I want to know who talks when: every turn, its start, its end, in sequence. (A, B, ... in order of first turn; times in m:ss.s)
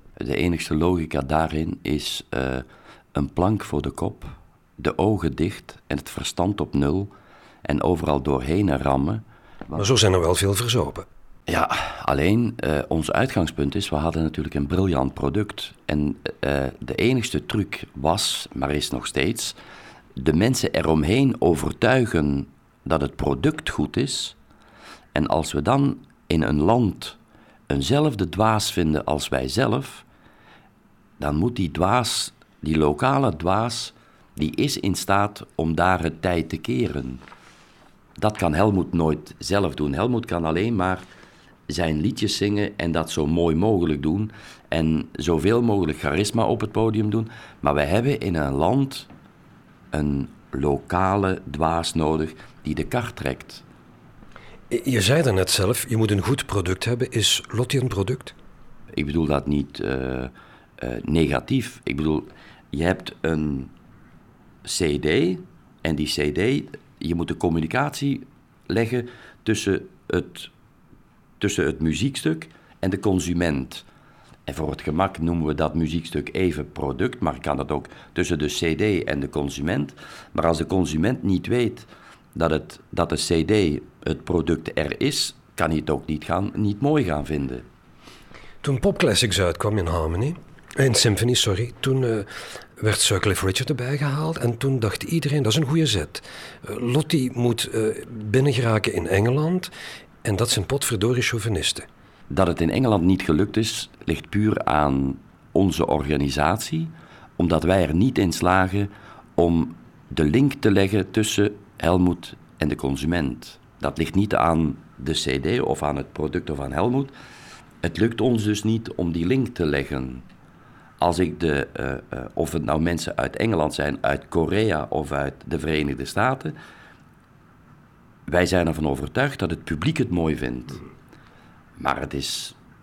0:00.2-0:07.1 A
0:07.6-0:09.8 A
0:09.8-0:11.1 B
0:11.5-0:19.6 A
0:20.2-0:24.4 A
0:25.1-0:27.2 A
0:27.7-0:30.0 A
0:31.2-0:37.2 A
0:38.2-0:41.1 A
0:41.7-0:49.1 A
0:49.9-0:53.6 A
0:54.7-0:58.4 B
0:58.9-1:03.7 A
1:04.6-1:10.5 A
1:11.4-1:13.8 A
1:14.5-1:27.6 A
1:28.6-1:39.7 B
1:40.2-1:41.9 B
1:42.3-1:57.1 A
1:57.8-2:00.2 A
2:01.0-2:06.6 A
2:08.3-2:10.8 A
2:11.8-2:12.6 A